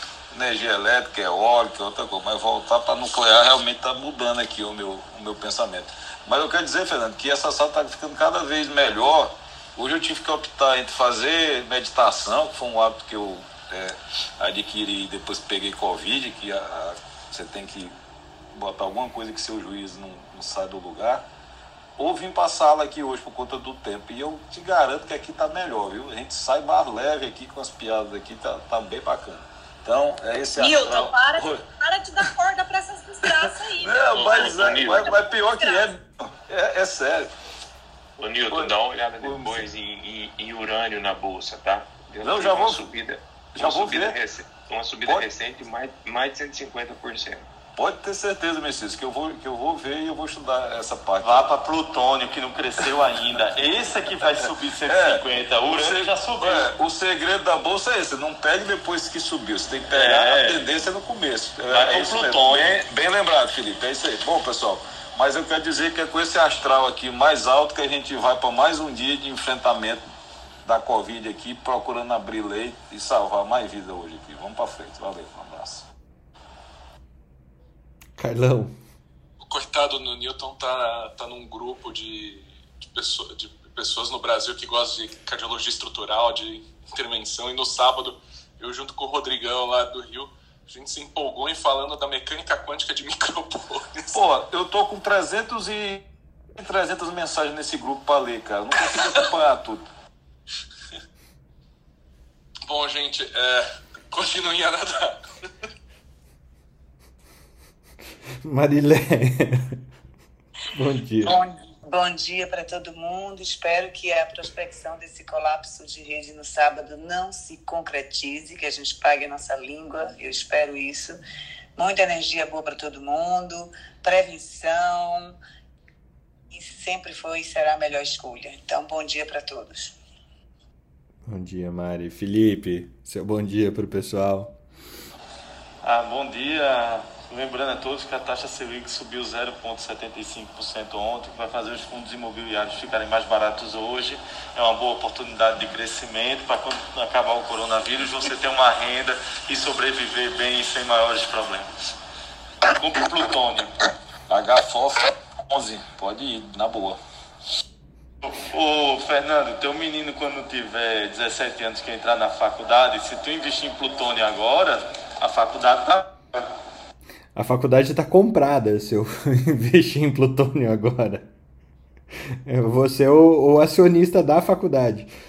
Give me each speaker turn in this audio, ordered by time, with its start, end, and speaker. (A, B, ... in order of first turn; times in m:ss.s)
0:00.3-0:17.9 A
0:18.5-0:21.2 A
0:22.0-0:31.6 A
0:30.6-0:34.4 B
0:33.8-0:37.3 A
0:34.1-0:35.1 C
0:35.0-0:35.9 B
0:38.2-0:47.5 C
0:38.5-0:39.6 A
0:42.2-0:42.8 A
0:43.6-0:44.2 A
0:47.8-0:51.5 A
0:51.2-0:56.7 D
0:54.0-1:10.0 A
0:59.9-1:00.7 D
1:01.7-1:02.8 D
1:10.6-1:15.9 A
1:18.2-1:18.7 E
1:19.4-1:34.2 F
1:34.1-1:36.0 A
1:36.6-1:39.9 A
1:42.7-1:45.2 F
1:48.4-1:49.8 E
1:50.7-1:51.4 E
1:51.2-2:01.2 G
2:01.8-2:05.3 G
2:06.5-2:09.9 G
2:11.2-2:14.5 E
2:15.8-2:31.7 D
2:32.7-2:33.7 D
2:34.3-2:37.0 A
2:38.2-2:46.4 D
2:47.3-2:51.3 E
2:52.4-2:55.1 E